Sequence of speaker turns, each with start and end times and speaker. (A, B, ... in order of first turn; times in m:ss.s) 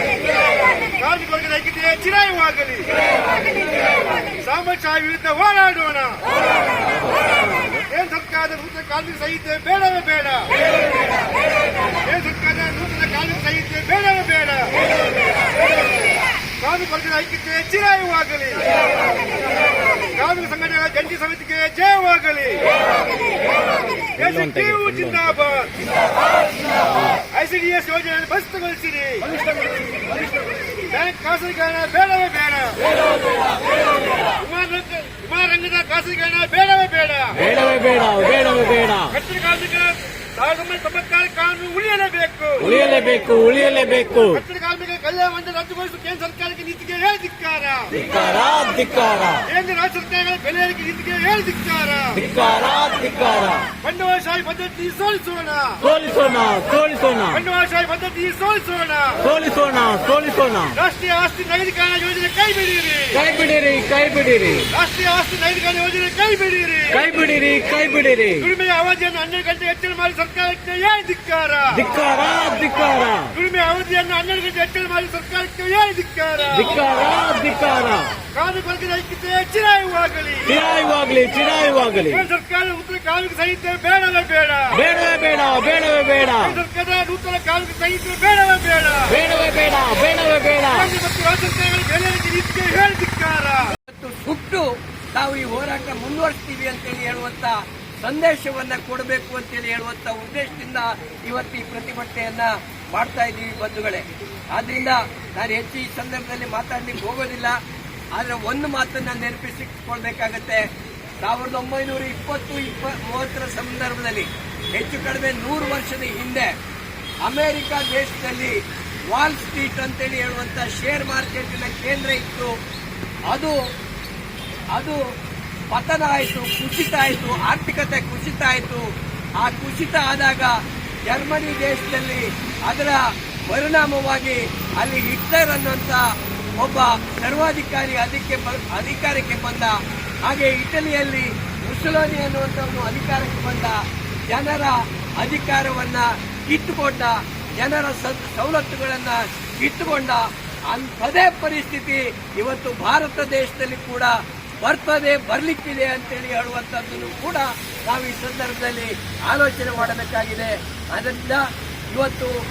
0:00.9-0:02.9 A
0:04.4-0:06.2 A
0:07.9-0:10.5 A
0:12.0-0:14.8 A
0:16.6-0:18.7 A
0:20.1-0:22.6 A
0:24.2-0:25.8 A
0:24.2-0:25.3 B
0:27.2-0:29.3 A
0:30.8-0:32.9 A
0:34.4-0:37.4 A
0:37.4-0:39.1 B
0:39.0-0:42.7 A
0:42.6-0:44.4 B
0:44.3-0:48.0 A
0:48.0-0:49.4 B
0:49.4-0:52.2 A
0:52.2-0:53.7 B
0:53.8-0:55.9 A
0:55.8-0:57.4 B
0:57.3-0:59.4 A
0:59.3-1:00.7 B
1:00.7-1:03.2 A
1:03.2-1:04.7 B
1:04.6-1:07.1 A
1:07.0-1:08.4 B
1:08.4-1:11.9 A
1:11.8-1:13.4 B
1:13.3-1:16.9 A
1:16.6-1:18.2 B
1:18.3-1:20.6 A
1:20.5-1:22.2 B
1:22.1-1:24.8 A
1:24.8-1:26.6 B
1:26.6-1:29.2 A
1:29.1-1:30.9 B
1:30.7-1:33.7 A
1:33.9-1:47.5 C
1:48.1-1:50.6 C
1:51.2-1:56.5 C
1:57.2-1:58.6 C
1:59.1-2:02.5 C
2:03.3-2:03.6 C
2:04.7-2:05.0 C
2:05.7-2:08.8 C
2:09.4-2:10.5 C
2:11.1-2:16.0 C
2:16.6-2:23.8 C
2:24.3-2:42.3 C